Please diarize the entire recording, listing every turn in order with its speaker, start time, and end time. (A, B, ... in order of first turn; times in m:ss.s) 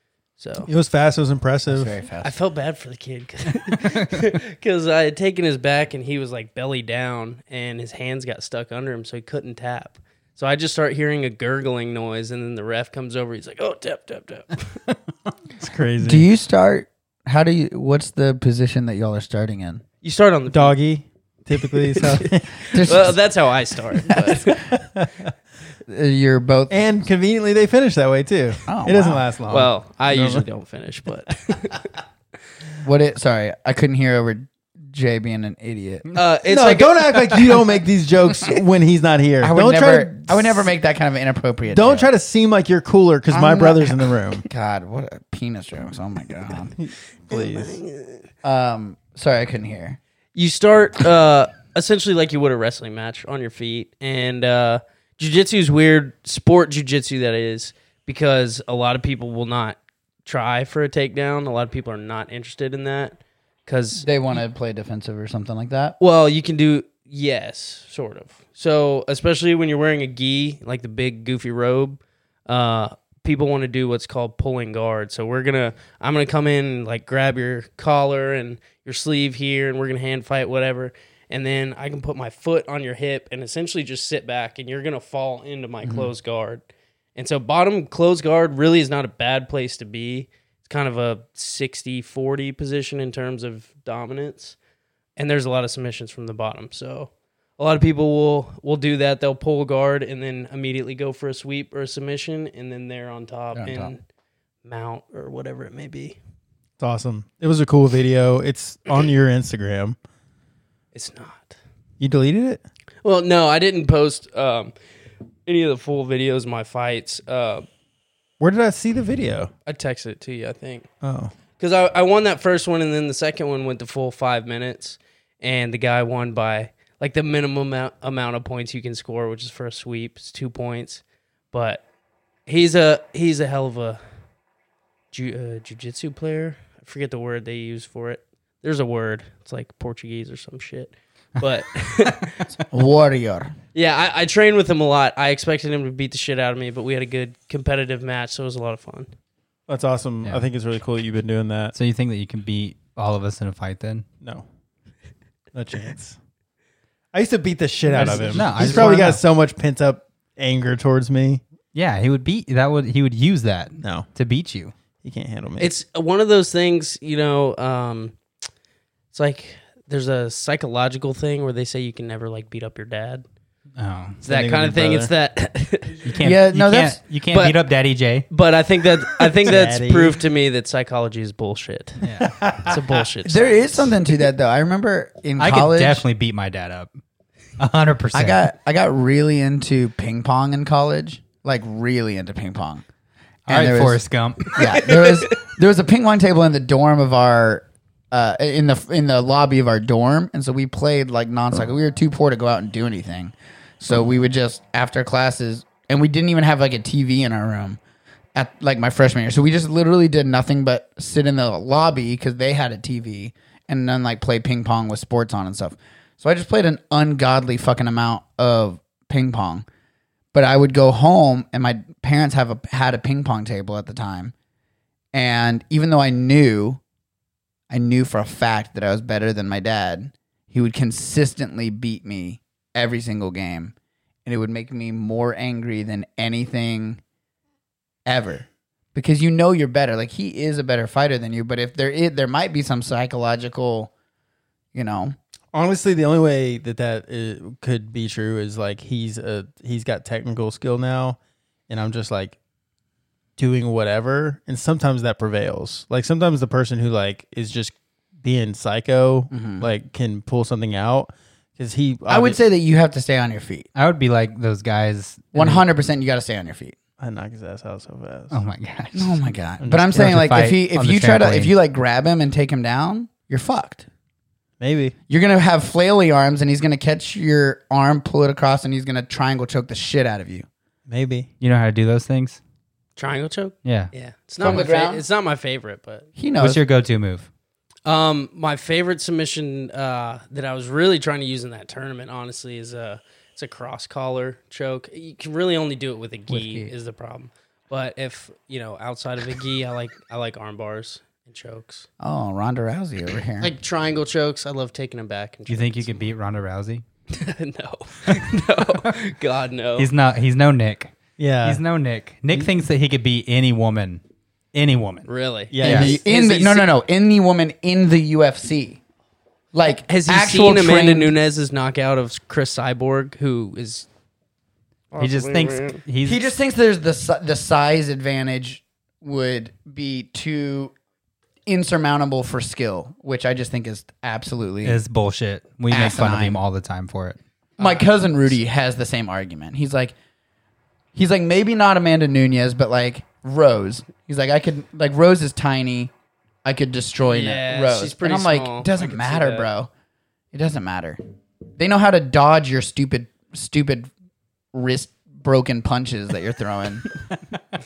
0:00.4-0:00.7 A
0:00.7-0:02.0 B
0:01.7-0:02.3 C
0:02.2-0:14.8 A
0:15.6-0:16.3 B
0:16.0-0:19.8 C
0:20.0-0:20.8 A
0:20.5-0:23.1 B
0:21.8-0:24.6 A
0:22.7-0:23.2 C
0:24.1-0:24.6 C
0:24.5-0:25.3 B
0:25.9-0:26.8 C
0:26.7-0:30.5 B
0:28.7-0:29.2 C
0:29.5-0:31.9 A
0:32.8-0:36.1 C
0:36.1-0:37.4 A
0:36.5-0:40.7 B
0:39.4-0:42.1 C
0:41.7-0:44.5 B
0:43.3-0:46.8 C
0:46.8-0:47.8 B
0:47.3-0:48.2 A
0:48.4-0:50.0 C
0:50.4-1:04.1 A
1:04.0-1:06.0 C
1:06.0-1:34.6 A
1:25.8-1:26.1 C
1:35.2-1:44.0 A
1:43.5-1:43.9 C
1:44.6-1:46.2 A
1:46.8-1:50.0 B
1:50.9-1:51.6 A
1:52.0-1:52.6 B
1:53.0-1:54.7 A
1:55.5-1:57.7 A
1:58.4-1:59.5 B
1:59.7-2:00.9 A
2:01.0-2:01.3 B
2:01.6-2:11.8 A
2:12.5-2:14.0 A
2:15.1-2:22.5 A
2:22.7-2:23.5 C
2:23.7-2:29.1 A
2:29.7-2:31.7 B
2:31.7-2:34.1 D
2:35.5-2:36.2 B
2:37.1-2:41.4 B
2:37.9-2:39.0 A
2:38.0-2:39.2 D
2:41.7-2:44.7 D
2:43.8-2:44.1 B
2:45.0-2:45.7 B
2:45.6-2:48.2 A
2:49.1-2:53.2 A
2:53.8-2:54.2 D
2:54.2-2:55.1 B
2:54.2-2:56.1 A
2:56.0-2:58.3 D
2:56.2-2:57.0 C
2:57.3-2:57.6 A
2:58.3-3:02.0 A
2:59.4-3:00.2 B
3:02.0-3:02.4 D
3:02.2-3:03.0 B
3:02.6-3:04.0 A
3:03.2-3:06.0 C
3:05.4-3:06.9 D
3:07.6-3:08.4 D
3:08.1-3:12.8 C
3:13.5-3:14.0 C
3:13.5-3:14.8 D
3:14.5-3:27.8 C
3:28.4-3:39.6 C
3:40.3-3:44.3 C
3:45.1-3:46.8 C
3:47.7-3:53.7 C
3:54.3-3:57.0 C
3:58.1-4:03.9 C
4:04.7-4:05.2 C
4:05.5-4:11.2 B
4:11.7-4:12.4 B
4:13.4-4:22.4 B
4:19.3-4:19.7 C
4:22.1-4:23.7 C
4:23.8-4:25.6 D
4:25.3-4:26.8 C
4:27.0-4:28.4 B
4:28.3-4:29.3 D
4:29.0-4:33.8 C
4:29.6-4:30.1 B
4:29.9-4:31.5 D
4:34.6-4:35.0 B
4:35.1-4:40.5 C
4:40.9-4:41.3 B
4:41.4-4:42.4 D
4:43.0-4:46.1 A
4:43.6-4:43.9 D
4:44.4-4:45.0 C
4:46.2-4:46.6 C
4:46.4-4:47.3 D
4:47.8-5:01.9 A
4:56.3-4:56.7 C
5:02.0-5:03.5 C
5:03.4-5:06.0 A
5:05.5-5:06.8 D
5:07.1-5:09.9 A
5:09.8-5:14.0 D
5:11.2-5:11.6 B
5:14.5-5:15.1 D
5:15.1-5:16.7 A
5:15.5-5:16.0 B
5:15.6-5:16.0 D
5:15.6-5:18.8 C
5:19.5-5:21.1 C
5:19.9-5:23.9 A
5:24.9-5:25.8 A
5:25.0-5:26.3 D
5:26.0-5:30.7 C
5:31.5-5:34.8 C
5:34.6-5:37.2 D
5:35.7-5:36.4 C
5:37.6-5:37.9 A
5:37.6-5:40.0 C
5:41.0-5:45.9 C
5:46.4-5:49.7 C
5:47.0-5:49.5 A
5:50.3-5:51.0 C
5:51.6-5:53.9 C
5:54.5-5:57.0 C